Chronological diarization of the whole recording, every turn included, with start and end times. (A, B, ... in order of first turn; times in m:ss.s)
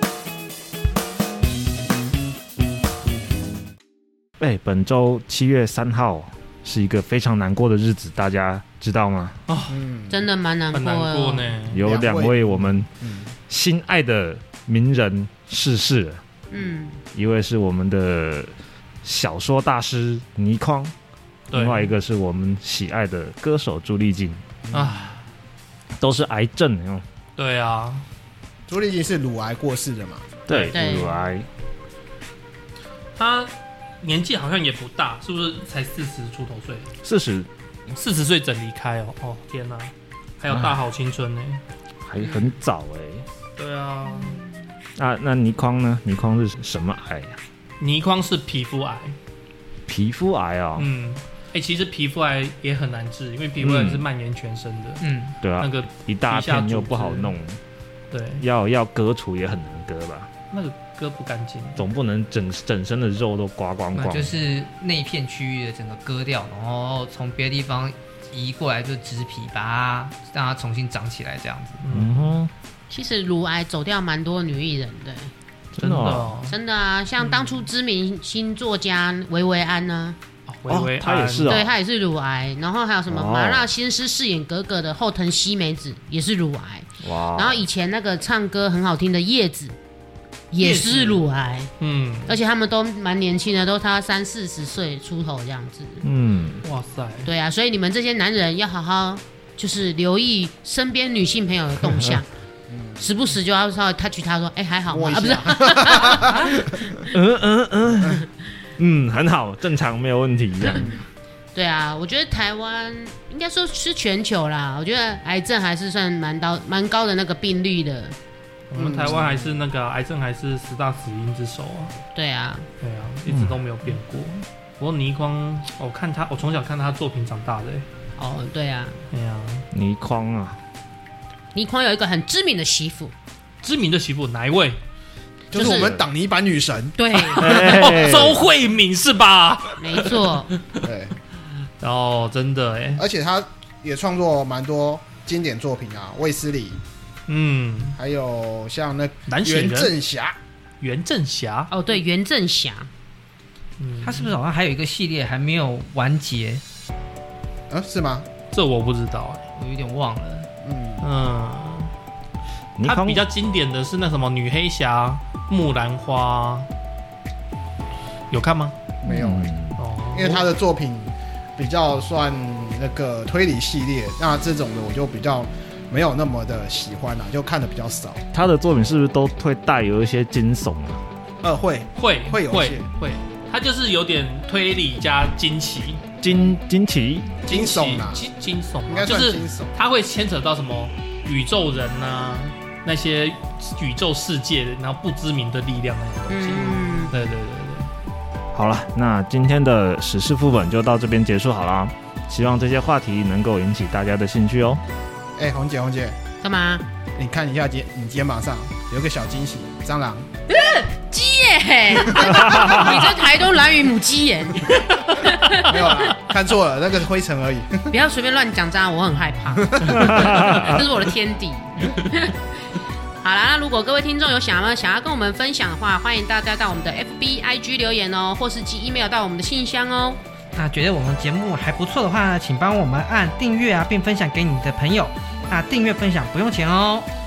0:04.4-0:09.4 A
0:09.5-0:09.8 B
0:09.7-0:10.2 C
0:10.1-0:11.6 D
0:10.7-0:11.8 B
0:11.7-0:12.9 A
0:11.7-0:13.3 C
0:13.5-0:16.2 A
0:16.5-0:17.0 D
0:17.1-0:18.5 A
0:19.0-0:20.9 A
0:21.5-0:21.9 B
0:21.5-0:24.5 A
0:24.7-0:25.1 C
0:24.7-0:25.2 B
0:26.0-0:27.0 A
0:27.4-0:28.0 B
0:28.7-0:30.3 C
0:30.5-0:31.5 A
0:30.5-0:31.0 B
0:30.7-0:31.2 D
0:33.2-0:36.9 B
0:37.0-0:37.5 A
0:37.9-0:41.6 B
0:40.5-0:40.8 A
0:42.0-0:43.3 A
0:42.2-0:42.5 B
0:43.6-0:44.4 B
0:45.0-0:47.4 A
0:47.8-0:49.2 B
0:49.9-0:50.9 A
0:50.8-0:55.0 B
0:53.6-0:54.0 A
0:55.0-0:55.4 E
0:55.4-0:57.6 A
0:55.6-0:57.4 B
0:58.1-0:58.5 B
0:58.4-1:00.3 A
1:00.5-1:01.9 B
1:01.8-1:04.4 A
1:03.9-1:11.8 E
1:11.8-1:12.3 B
1:11.9-1:12.5 A
1:12.9-1:15.3 D
1:15.8-1:16.3 A
1:15.8-1:16.6 B
1:16.5-1:20.2 D
1:17.2-1:17.7 B
1:20.5-1:21.7 B
1:20.7-1:21.6 A
1:21.5-1:29.8 D
1:23.1-1:23.7 A
1:27.0-1:27.6 A
1:30.5-1:31.7 D
1:30.6-1:31.2 B
1:31.8-1:32.4 B
1:32.3-1:36.0 D
1:36.0-1:36.6 A
1:36.6-1:37.3 B
1:37.2-1:42.3 D
1:42.7-1:43.1 C
1:43.0-1:47.2 D
1:44.9-1:46.6 C
1:47.1-1:48.1 A
1:48.8-1:50.9 A
1:50.7-1:51.0 C
1:51.5-1:58.2 D
1:58.7-2:01.9 B
1:58.8-1:59.6 C
2:02.2-2:02.7 D
2:02.8-2:07.9 B
2:03.3-2:03.6 A
2:08.2-2:09.0 D
2:09.1-2:09.7 B
2:09.7-2:10.6 A
2:11.5-2:13.1 D
2:13.6-2:14.8 B
2:15.5-2:16.0 D
2:15.5-2:17.7 C
2:17.0-2:17.5 D
2:17.4-2:18.4 A
2:17.4-2:20.8 B
2:19.8-2:20.5 D
2:20.8-2:21.2 C
2:21.8-2:23.0 B
2:23.0-2:26.8 C
2:27.3-2:28.0 B
2:28.0-2:30.4 C
2:29.3-2:29.9 B
2:30.8-2:31.7 B
2:31.7-2:32.9 D
2:33.8-2:34.4 B
2:34.0-2:36.6 E
2:37.7-2:38.3 C
2:38.5-2:39.4 B
2:39.6-2:40.5 E
2:40.6-2:41.1 C
2:41.0-2:41.9 B
2:42.8-2:43.2 A
2:42.8-2:46.7 B
2:48.3-2:48.8 B
2:49.0-2:49.5 C
2:49.1-2:49.8 A
2:49.8-2:50.5 B
2:50.1-2:58.2 C
2:58.3-3:01.0 A
3:01.4-3:02.9 C
3:02.0-3:06.0 B
3:06.2-3:07.4 A
3:07.4-3:08.3 C
3:07.5-3:17.9 B
3:08.9-3:09.7 C
3:16.3-3:17.1 D
3:18.5-3:24.8 A
3:25.4-3:26.2 C
3:26.4-3:26.9 D
3:27.2-3:30.3 C
3:30.5-3:36.1 D
3:32.6-3:33.0 A
3:35.6-3:37.9 C
3:37.9-3:42.4 D
3:39.7-3:40.0 C
3:40.2-3:40.7 A
3:43.2-3:50.2 D
3:50.6-3:57.1 E